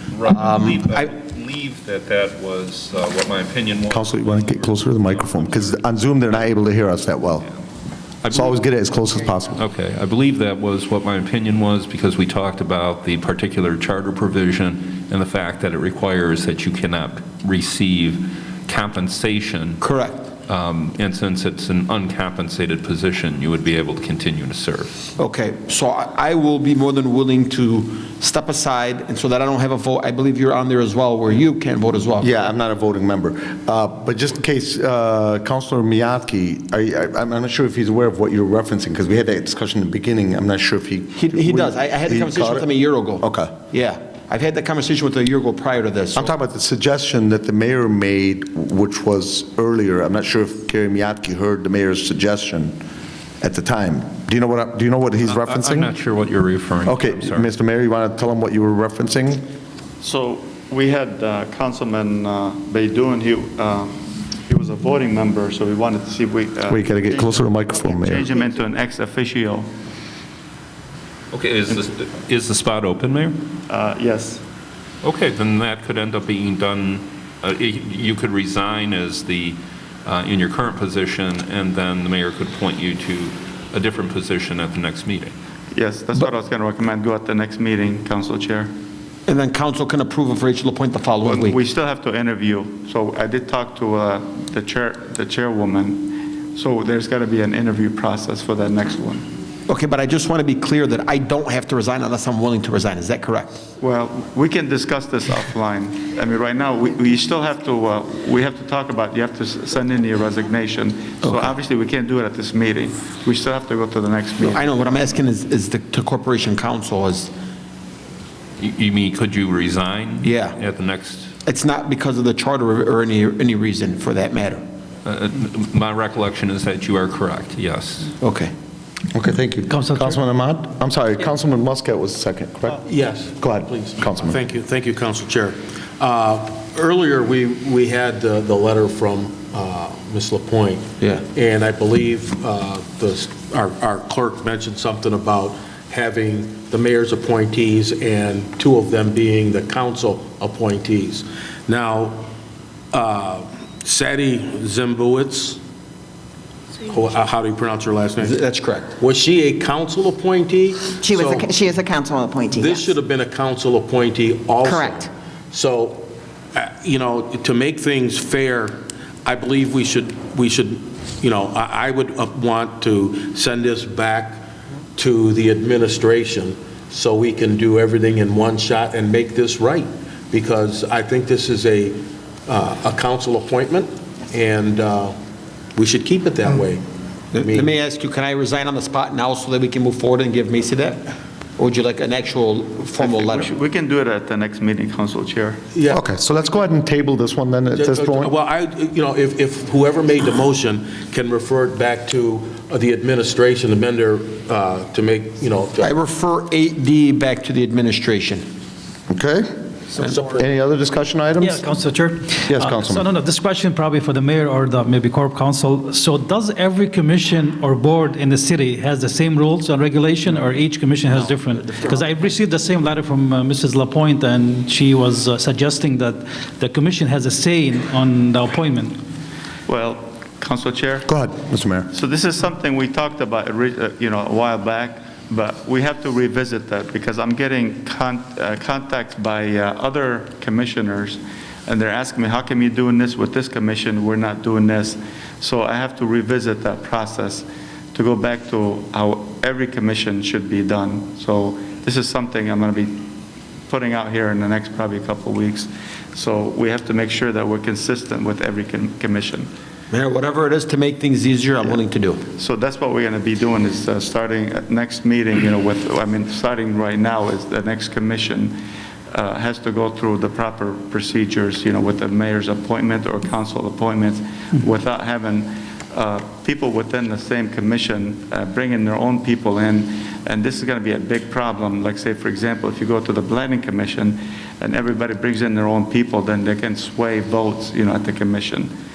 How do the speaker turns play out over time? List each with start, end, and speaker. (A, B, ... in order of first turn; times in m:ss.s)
0:00.1-0:05.8 A
0:00.3-0:01.1 B
0:03.9-0:07.5 C
0:08.3-0:09.6 C
0:09.6-0:19.8 A
0:19.8-0:20.3 B
0:20.5-0:24.9 A
0:25.2-0:32.3 B
0:32.2-0:42.7 C
0:41.2-0:46.3 B
0:43.2-0:43.5 C
0:46.2-0:52.8 C
0:53.4-0:55.9 C
0:55.3-0:57.5 A
0:56.8-0:59.4 C
1:00.0-1:09.7 D
1:06.7-1:08.3 C
1:11.3-1:13.4 A
1:13.7-1:14.4 D
1:15.0-1:25.3 A
1:25.7-1:28.7 D
1:29.3-1:31.6 B
1:31.2-1:39.2 D
1:39.7-1:43.6 B
1:43.8-1:55.0 D
1:51.2-1:51.5 B
1:54.4-1:57.3 B
1:58.6-2:01.3 A
2:00.2-2:00.6 B
2:01.4-2:04.6 B
2:05.0-2:08.2 A
2:08.2-2:08.5 B
2:09.1-2:12.8 C
2:09.7-2:10.2 E
2:12.8-2:32.3 F
2:13.4-2:14.4 C
2:32.9-2:35.6 F
2:36.8-2:38.4 F
2:38.2-2:38.9 B
2:39.0-2:41.6 F
2:40.9-2:42.9 G
2:42.5-3:05.2 F
2:44.6-2:45.1 G
3:05.8-3:06.8 F
3:07.3-3:11.0 B
3:07.4-3:07.8 F
3:11.6-3:13.5 B
3:13.0-3:15.6 D
3:15.7-3:16.4 F
3:15.9-3:18.3 C
3:17.7-3:26.0 F
3:25.8-3:28.4 B
3:29.1-3:29.5 C
3:30.0-3:30.5 F
3:30.3-3:31.7 C
3:31.4-3:49.0 E
3:32.5-3:33.1 C
3:41.1-3:42.2 B
3:49.7-3:51.1 D
3:51.1-3:51.9 C
3:51.9-4:13.0 D
4:13.7-4:19.5 D
4:19.9-4:22.2 B
4:22.4-4:28.6 D
4:29.1-4:48.7 D